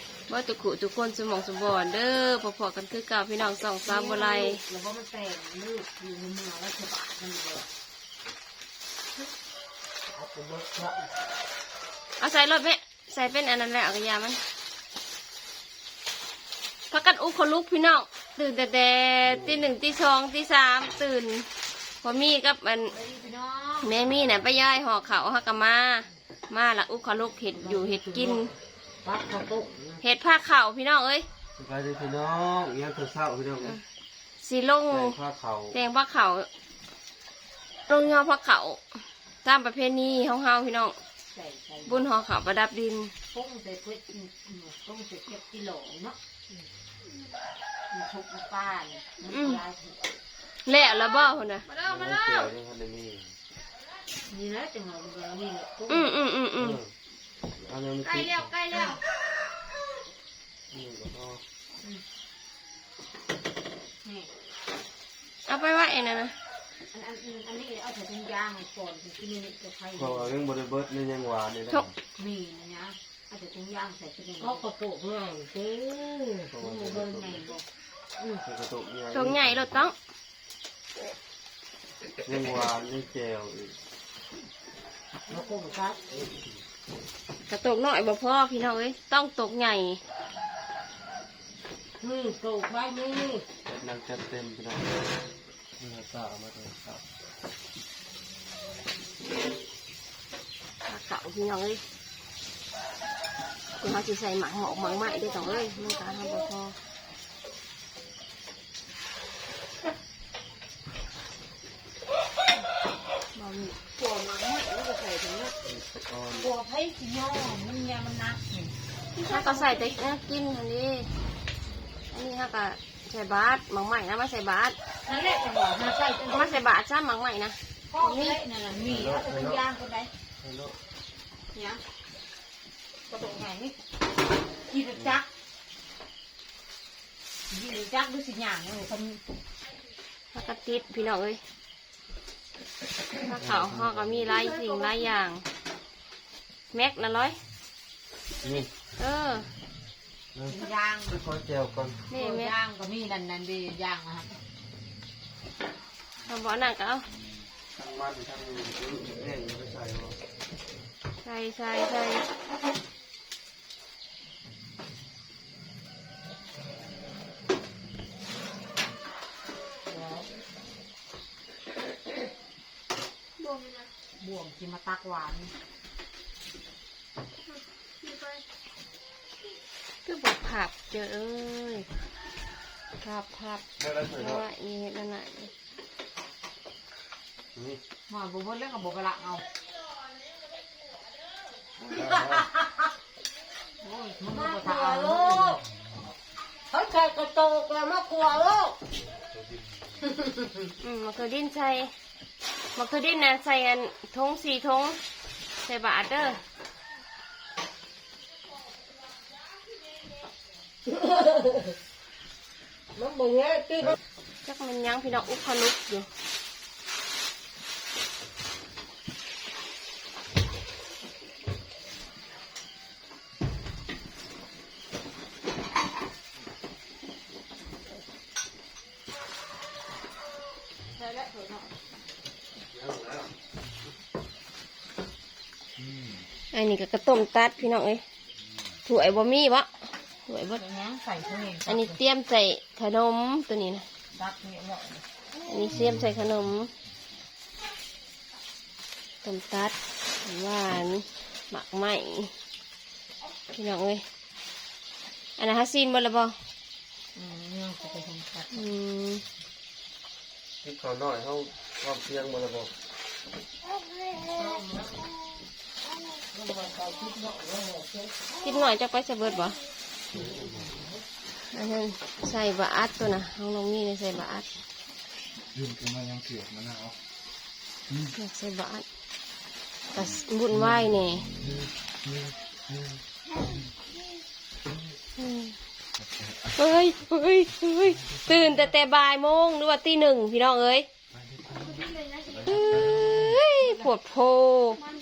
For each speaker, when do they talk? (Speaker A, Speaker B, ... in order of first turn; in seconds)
Speaker A: 0.3-4.6, 12.2-14.4, 16.9-21.5, 22.0-22.9, 23.8-28.5, 30.0-31.2, 34.4-35.2, 35.7-36.5, 37.9-38.8, 39.4-41.0, 41.9-43.1, 49.2-49.6, 50.6-51.7, 55.9-56.8, 65.5-66.3, 79.1-80.0, 87.5-90.0, 100.8-101.8, 103.8-106.8, 113.3-113.8, 119.2-121.1, 122.1-124.8, 126.3-128.4, 140.3-141.4, 143.2-145.4, 146.7-147.4, 149.0-149.5, 152.1-152.5, 156.2-157.1, 161.2-162.2, 180.0-181.9, 183.0-185.5, 200.8-201.9, 202.7-205.0, 205.6-206.4, 214.4-216.1, 236.5-238.0, 238.8-239.7, 240.3-240.6, 241.7-243.8, 245.5-246.7, 249.2-252.3, 253.5-254.0, 255.4-256.3, 258.5-259.2, 268.4-269.6, 271.5-274.4, 278.0-278.8, 279.9-281.3, 285.2-285.5, 286.5-290.9, 292.4-294.8
Speaker B: 3.9-7.7, 22.9-23.9, 27.5-28.5, 29.0-30.0, 41.3-42.1, 43.3-46.2, 47.9-50.1, 54.3-56.1, 58.5-59.0, 64.0-64.3, 66.9-70.3, 72.2-75.0, 76.5-77.6, 85.3-86.0, 92.0-93.4, 105.0-105.7, 113.9-115.5, 116.4-118.7, 125.0-126.6, 127.9-130.1, 131.5-131.8, 133.1-133.7, 134.7-135.2, 137.5-139.2, 150.5-151.2, 152.1-154.4, 169.9-170.3, 174.2-175.5, 188.1-189.4, 193.8-195.6, 230.9-231.7, 240.5-242.0, 244.1-245.0, 257.1-258.7, 264.3-264.9, 266.3-268.1
Speaker C: 10.2-11.0, 51.8-52.1, 74.4-76.5, 173.4-173.8, 194.3-195.6, 196.7-198.8, 211.0-211.6, 212.9-213.9
Speaker D: 31.6-33.8, 34.9-35.8, 51.7-53.3, 56.6-56.9, 57.5-58.8, 60.7-61.4, 70.0-71.9, 76.5-77.5, 78.4-79.9, 82.2-83.8, 86.1-86.5, 93.7-95.1, 95.8-97.0, 115.7-116.5, 128.8-129.6, 130.4-130.8, 143.3-144.3, 148.4-148.7, 150.3-152.1, 157.7-160.2, 183.8-184.4, 187.5-187.8, 191.8-192.5, 232.7-233.3, 260.6-262.7, 270.1-270.7
Speaker E: 275.5-276.9, 291.3-293.3